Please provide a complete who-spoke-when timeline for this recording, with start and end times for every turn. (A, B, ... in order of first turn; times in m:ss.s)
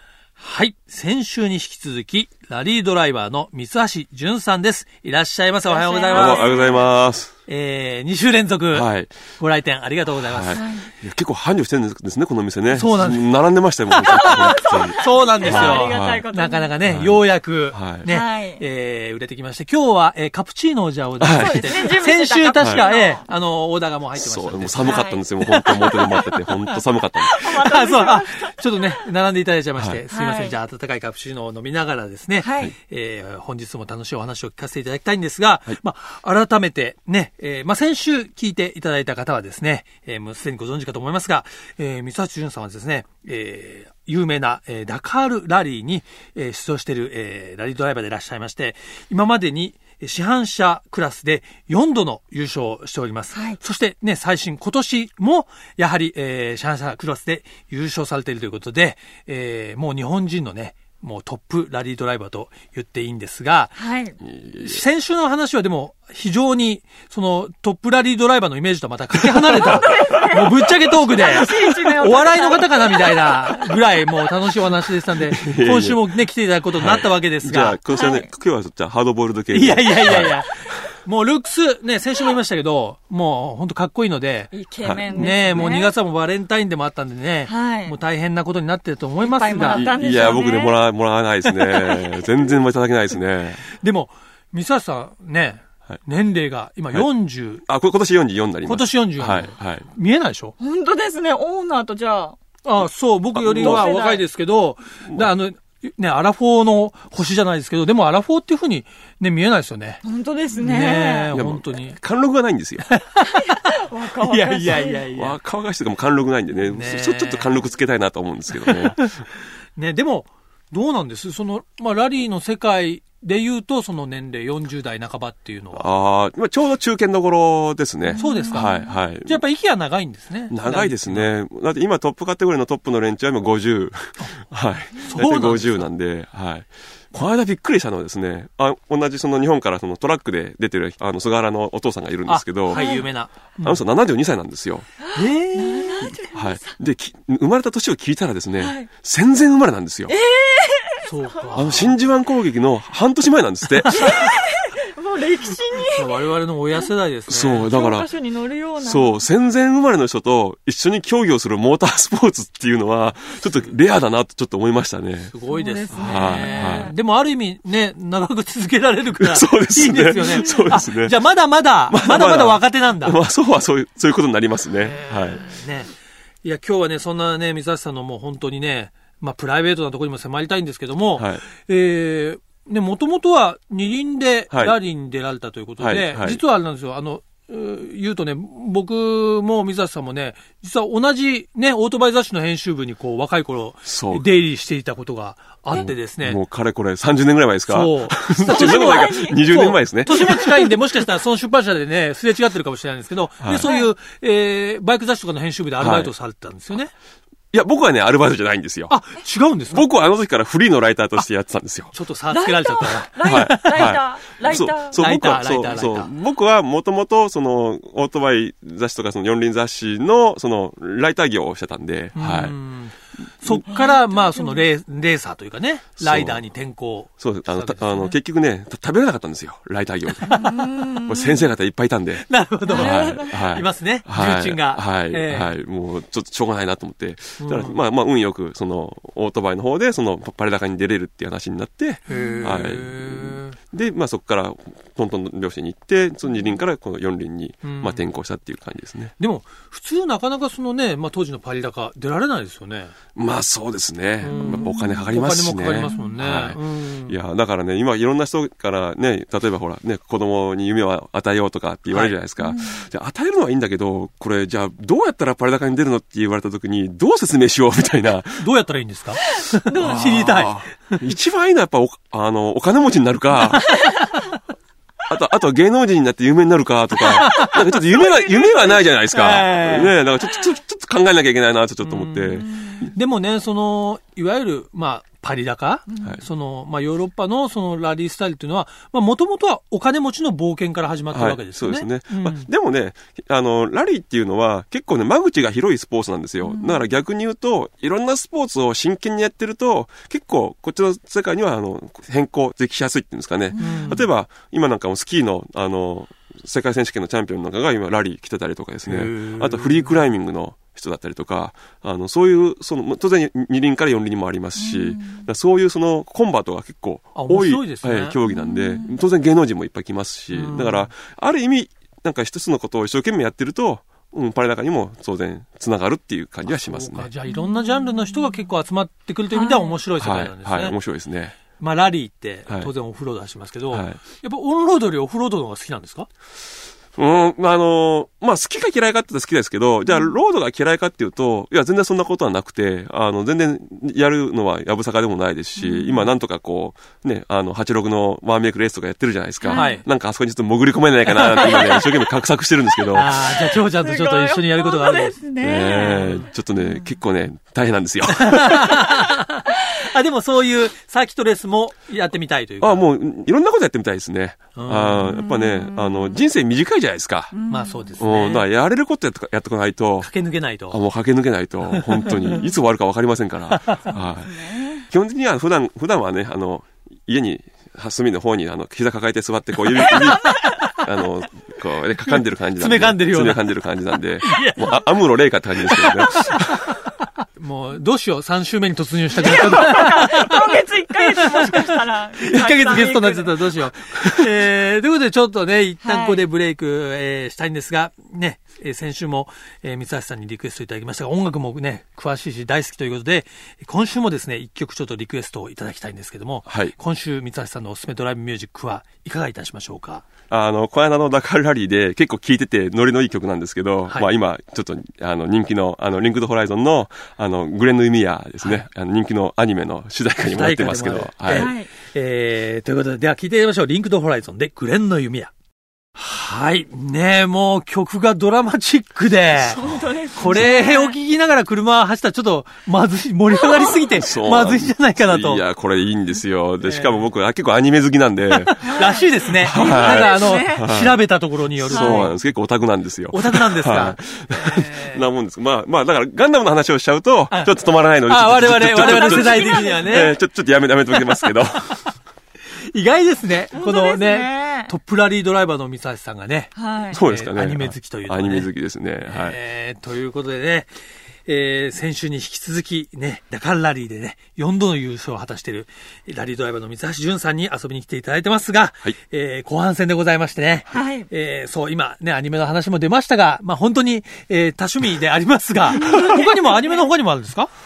0:00.4-0:06.5 A
0:05.7-0:06.9 B
0:06.1-0:07.3 C
0:07.5-0:10.6 A
0:08.7-0:09.1 C
0:10.2-0:16.2 C
0:10.5-0:10.9 B
0:12.7-0:13.3 A
0:13.9-0:26.6 A
0:14.1-0:16.7 B
0:16.8-0:18.1 C
0:18.1-0:18.6 B
0:21.2-0:21.9 C
0:21.3-0:23.2 B
0:22.6-0:22.8 C
0:24.2-0:27.7 C
0:24.8-0:25.3 B
0:27.2-0:28.9 B
0:27.3-1:03.8 A
0:30.1-0:30.6 B
0:32.4-0:32.7 B
1:03.8-1:04.2 B
1:04.3-1:04.8 C
1:04.5-1:17.8 A
1:09.4-1:13.9 B
1:15.3-1:16.0 C
1:16.8-1:20.4 C
1:17.9-1:18.3 B
1:19.5-1:24.5 A
1:24.5-1:26.0 B
1:24.8-1:25.8 C
1:25.1-1:30.0 A
1:27.4-1:28.0 B
1:29.2-1:30.8 B
1:29.6-1:33.6 C
1:33.7-1:37.6 A
1:37.6-1:39.9 C
1:38.6-1:40.6 A
1:40.6-1:42.4 B
1:42.6-1:50.0 A
1:43.3-1:43.9 C
1:43.5-1:44.2 B
1:50.0-1:51.4 B
1:50.5-1:52.0 A
1:51.3-1:52.9 C
1:52.9-1:55.4 A
1:53.2-1:55.1 B
1:54.7-1:59.1 C
1:56.7-1:57.6 A
1:58.6-1:59.1 A
1:59.8-2:05.9 A
2:05.7-2:09.4 C
2:08.0-2:09.0 B
2:08.2-2:11.4 A
2:10.5-2:22.9 C
2:15.0-2:15.9 A
2:22.3-2:23.8 A
2:22.7-2:23.1 B
2:23.6-2:24.9 C
2:25.0-2:26.8 B
2:25.2-2:26.2 A
2:26.3-2:30.1 C
2:28.6-2:28.9 B
2:30.1-2:31.1 B
2:31.0-2:32.0 A
2:31.5-2:34.3 C
2:33.9-2:36.2 B
2:35.9-2:37.7 A
2:37.3-2:38.1 C
2:37.7-2:39.2 B
2:38.8-2:45.3 C
2:45.3-2:53.2 A
2:45.5-2:46.9 B
2:45.9-2:46.9 C
2:49.2-2:51.2 C
2:51.9-2:55.4 C
2:54.8-2:55.9 A
2:56.4-3:16.4 A
3:01.2-3:01.4 C
3:04.5-3:04.8 C
3:05.8-3:06.4 C
3:13.9-3:14.2 C
3:15.7-3:20.6 C
3:17.7-3:26.9 A
3:18.4-3:20.4 B
3:23.4-3:23.7 C
3:23.6-3:23.9 B
3:25.8-3:26.1 C
3:27.5-3:29.0 C
3:28.9-3:29.9 A
3:29.7-3:31.9 C
3:31.9-3:36.1 A
3:32.3-3:35.0 B
3:33.2-3:42.6 C
3:42.2-3:48.2 A
3:43.7-3:44.6 B
3:46.0-3:46.4 C
3:47.2-3:50.5 C
3:50.2-3:50.6 A
3:50.4-3:51.5 B
3:51.0-4:09.1 C
3:52.2-3:55.5 A
3:52.7-3:53.4 B
3:57.4-3:57.8 A
4:02.1-4:03.6 A
4:02.2-4:02.5 B
4:07.6-4:08.0 A
4:09.2-4:12.9 A
4:13.2-4:28.5 C
4:14.2-4:17.2 A
4:14.3-4:15.1 B
4:15.8-4:16.2 B
4:21.9-4:22.2 A
4:22.4-4:22.8 B
4:28.4-4:31.0 A
4:29.7-4:30.4 B
4:29.7-4:33.8 C
4:33.5-4:34.2 A
4:33.7-4:34.0 B
4:35.1-4:42.9 C
4:37.1-4:38.8 B
4:37.2-4:37.5 A
4:39.1-4:40.0 A
4:41.8-4:52.5 A
4:42.4-4:42.9 B
4:45.9-4:46.2 B
4:51.1-5:27.1 C
4:56.4-4:56.8 B
5:03.5-5:04.0 B
5:03.6-5:04.1 A
5:08.8-5:10.0 A
5:14.6-5:15.3 B
5:17.2-5:18.2 A
5:18.2-5:19.0 B
5:20.3-5:20.9 A
5:26.4-5:30.8 A
5:29.3-5:29.8 B
5:30.0-5:31.4 C
5:31.6-5:36.1 A
5:33.7-5:34.0 C
5:37.0-5:53.4 C
5:45.6-5:46.0 B
5:49.4-5:49.8 B
5:49.5-5:49.8 A
5:51.1-5:51.8 A
5:51.4-5:51.8 B
5:52.9-5:55.2 A
5:53.7-5:56.8 B
5:55.4-5:58.9 C
5:58.3-6:02.9 A
6:02.6-6:07.4 C
6:04.6-6:05.1 A
6:05.0-6:06.2 B
6:07.3-6:08.0 B
6:07.5-6:08.5 A
6:08.0-6:10.1 C
6:10.0-6:10.8 A
6:10.7-6:26.5 C
6:11.7-6:12.4 A
6:12.2-6:12.5 B
6:13.5-6:13.9 A
6:13.9-6:14.9 B
6:19.9-6:20.6 A
6:22.1-6:23.5 A
6:24.2-6:24.9 A
6:25.7-6:26.8 A
6:27.4-6:30.4 A
6:29.2-6:33.5 B
6:31.2-6:50.0 A
6:35.8-6:36.2 B
6:46.5-6:46.7 C
6:50.3-7:01.5 C
6:58.4-6:58.7 A
7:00.2-7:05.3 A
7:01.3-7:01.7 B
7:06.0-7:09.6 A
7:09.4-7:10.5 C
7:09.6-7:11.0 B
7:10.2-7:15.4 A
7:13.4-7:13.7 B
7:14.0-7:21.0 C
7:16.6-7:17.1 A
7:18.3-7:22.2 A
7:18.6-7:20.7 B
7:21.6-7:31.8 C
7:21.7-7:22.1 B
7:23.1-7:25.0 A
7:27.3-7:30.2 A
7:28.7-7:30.2 B
7:30.9-7:31.3 A
7:32.7-7:38.5 A
7:33.5-7:34.7 B
7:36.6-7:37.0 B
7:36.9-7:39.4 C
7:39.1-7:40.7 A
7:41.3-7:57.5 A
7:50.7-7:51.1 B
7:55.8-7:56.6 B